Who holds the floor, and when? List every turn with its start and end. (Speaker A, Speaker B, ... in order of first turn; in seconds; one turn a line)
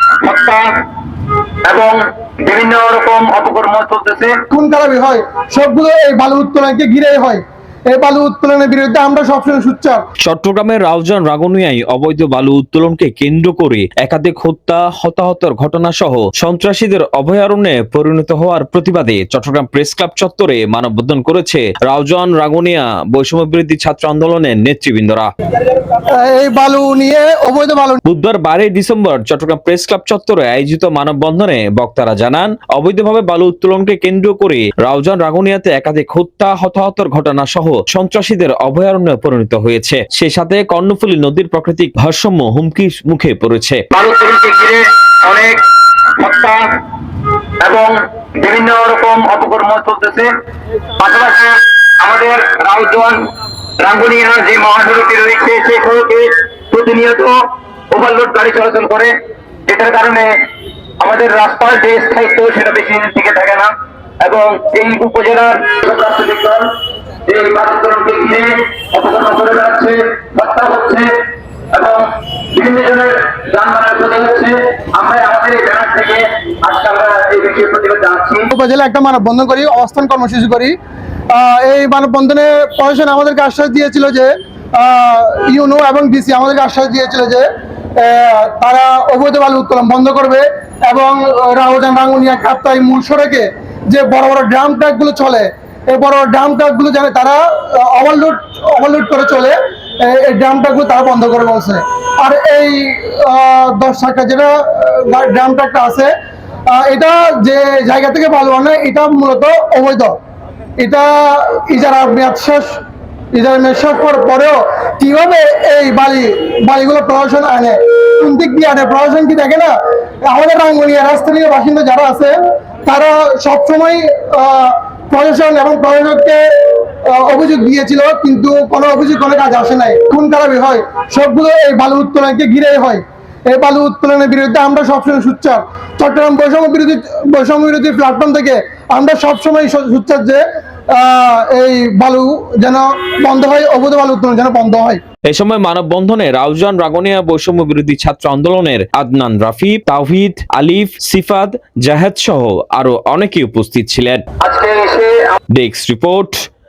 Speaker A: 0.2-0.7
Speaker A: 1.6-4.3
Speaker B: 4.5-10.0
Speaker C: 10.2-25.3
Speaker B: 26.1-28.0
Speaker C: 28.0-43.8
Speaker A: 43.9-45.6
Speaker A: 46.2-46.6
Speaker A: 47.6-50.3
Speaker A: 51.0-53.2
Speaker A: 53.8-57.4
Speaker A: 57.9-59.1
Speaker A: 59.7-60.3
Speaker A: 61.0-66.7
Speaker A: 67.3-71.1
Speaker A: 71.7-78.5
Speaker B: 78.5-80.7
Speaker B: 81.3-87.5
Speaker B: 88.0-106.1
Speaker B: 106.7-110.2
Speaker B: 110.8-112.8
Speaker B: 113.3-119.7
Speaker B: 120.2-140.4
Speaker B: 140.9-145.0
Speaker C: 145.2-154.2
Speaker A: 154.4-155.3
Speaker C: 155.5-156.3